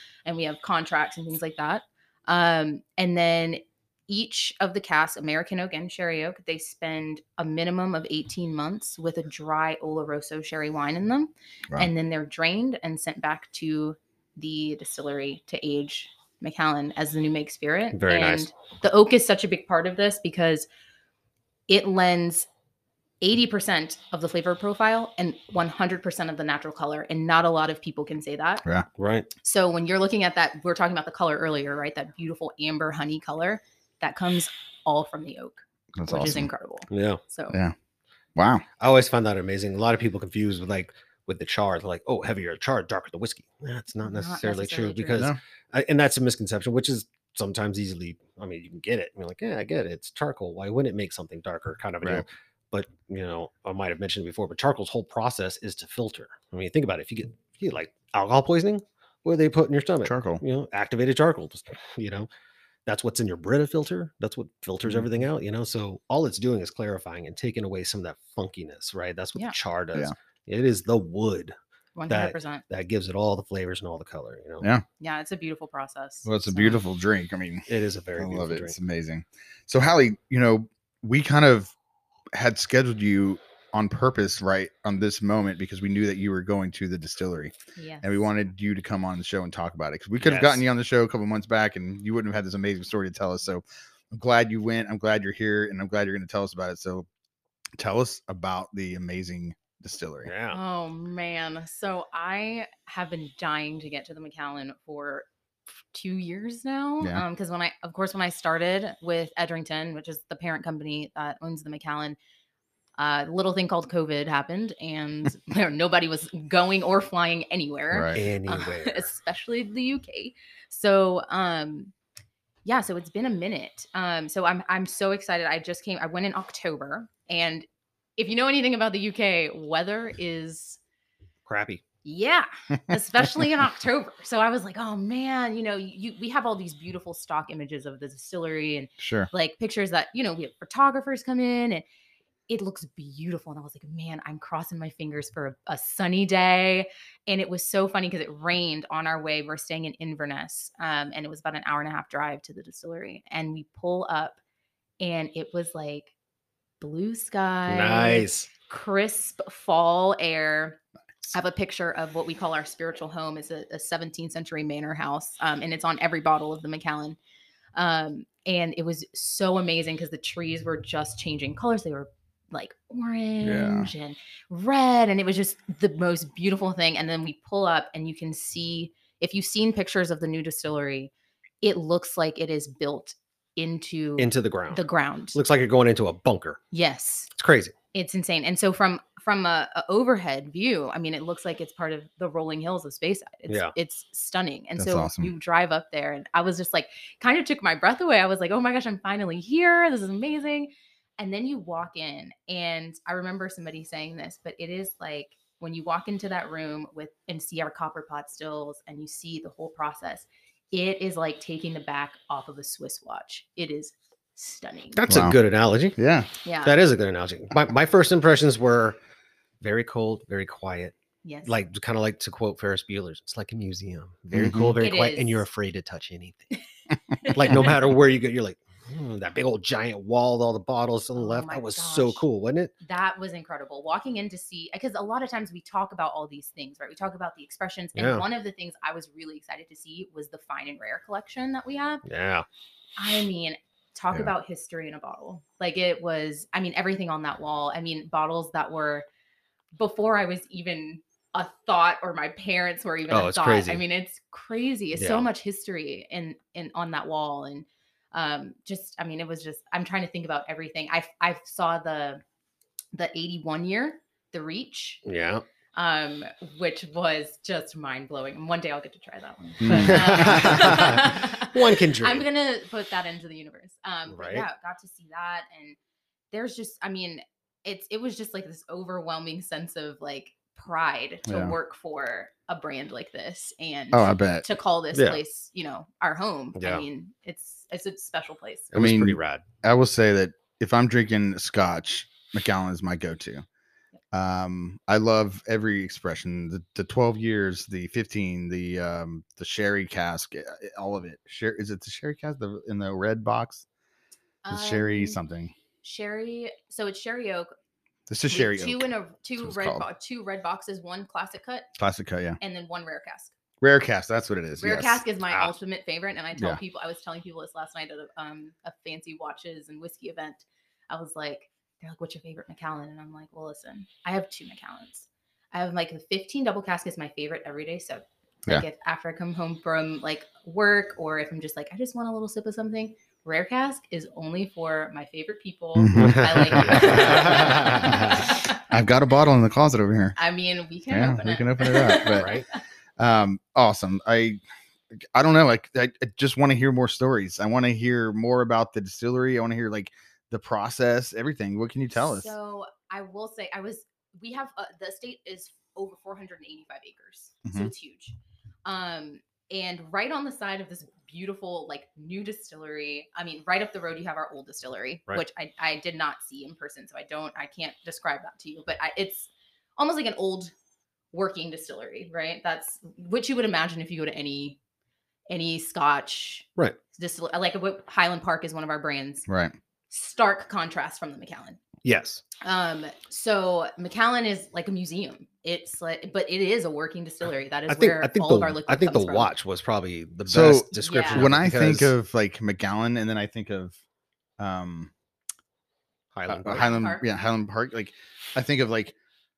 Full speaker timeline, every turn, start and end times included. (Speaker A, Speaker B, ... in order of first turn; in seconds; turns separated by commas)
Speaker A: 0.2-20.7, Speaker B: 17.9-18.5, Speaker A: 21.7-22.5, Speaker A: 23.2-28.6, Speaker B: 29.0-29.3, Speaker A: 29.4-37.6, Speaker C: 36.0-36.5, Speaker B: 36.9-37.2, Speaker C: 38.4-38.6, Speaker B: 38.8-62.3, Speaker A: 44.0-45.3, Speaker C: 60.0-60.4, Speaker B: 62.9-71.5, Speaker A: 72.0-72.6, Speaker B: 72.1-74.7, Speaker A: 75.0-76.8, Speaker C: 76.3-77.7, Speaker B: 77.7-78.8, Speaker C: 78.2-81.7, Speaker C: 82.3-97.1, Speaker A: 87.8-88.3, Speaker B: 90.2-90.6, Speaker C: 97.8-100.3, Speaker B: 100.2-100.6, Speaker A: 100.5-105.3, Speaker A: 105.8-112.2, Speaker A: 113.0-121.9, Speaker C: 117.9-118.2, Speaker B: 118.1-119.0, Speaker A: 122.7-130.8, Speaker B: 131.5-131.8, Speaker A: 132.0-141.8, Speaker C: 139.0-139.3, Speaker A: 142.5-154.4, Speaker A: 155.0-156.1, Speaker A: 156.8-160.8, Speaker B: 157.7-158.5, Speaker A: 161.3-167.2, Speaker A: 167.8-181.1, Speaker C: 173.4-173.9, Speaker A: 181.6-185.4, Speaker B: 184.2-186.6, Speaker A: 186.7-187.3, Speaker B: 187.3-187.7, Speaker A: 187.9-215.0, Speaker B: 193.5-193.7, Speaker C: 194.8-195.3, Speaker B: 214.9-216.0, Speaker C: 215.1-215.4, Speaker C: 216.0-216.3, Speaker A: 216.4-216.8, Speaker B: 216.6-219.0, Speaker B: 219.6-220.9, Speaker A: 221.2-221.6, Speaker B: 221.4-226.5, Speaker C: 224.3-224.8, Speaker A: 224.8-225.5, Speaker A: 227.2-227.7, Speaker B: 227.3-232.7, Speaker A: 231.2-232.2, Speaker A: 232.8-242.0, Speaker B: 237.9-238.3, Speaker B: 242.1-242.5, Speaker A: 243.0-249.1, Speaker A: 249.8-262.2, Speaker B: 253.1-253.8, Speaker B: 254.9-255.3, Speaker A: 262.9-265.0, Speaker B: 265.1-265.4, Speaker A: 265.7-275.8, Speaker C: 269.6-270.7, Speaker B: 269.6-272.2, Speaker B: 274.1-274.5, Speaker A: 276.3-288.7, Speaker C: 281.3-281.6, Speaker C: 283.9-284.5, Speaker B: 284.9-285.2, Speaker B: 286.6-286.9, Speaker B: 288.7-289.4, Speaker C: 288.7-293.4, Speaker C: 294.1-303.7, Speaker A: 304.4-305.2, Speaker C: 304.5-305.5, Speaker A: 305.8-307.5, Speaker C: 308.1-309.9, Speaker A: 308.3-311.7, Speaker C: 311.8-312.4, Speaker A: 312.4-313.3, Speaker C: 313.6-315.0, Speaker A: 314.6-338.6, Speaker C: 335.8-340.2, Speaker B: 335.9-338.2, Speaker A: 340.2-342.4, Speaker C: 340.9-342.3, Speaker B: 342.1-342.5, Speaker C: 343.0-344.4, Speaker C: 345.1-352.3, Speaker A: 351.9-370.5, Speaker C: 357.5-357.7, Speaker A: 371.1-374.6, Speaker A: 375.3-379.3, Speaker C: 379.3-379.6, Speaker A: 379.9-381.6, Speaker B: 381.8-382.2, Speaker A: 382.4-389.3, Speaker B: 387.7-391.9, Speaker C: 390.3-393.8, Speaker A: 390.7-391.3, Speaker C: 394.4-394.9, Speaker B: 396.1-396.7, Speaker C: 396.3-398.9, Speaker A: 396.5-397.1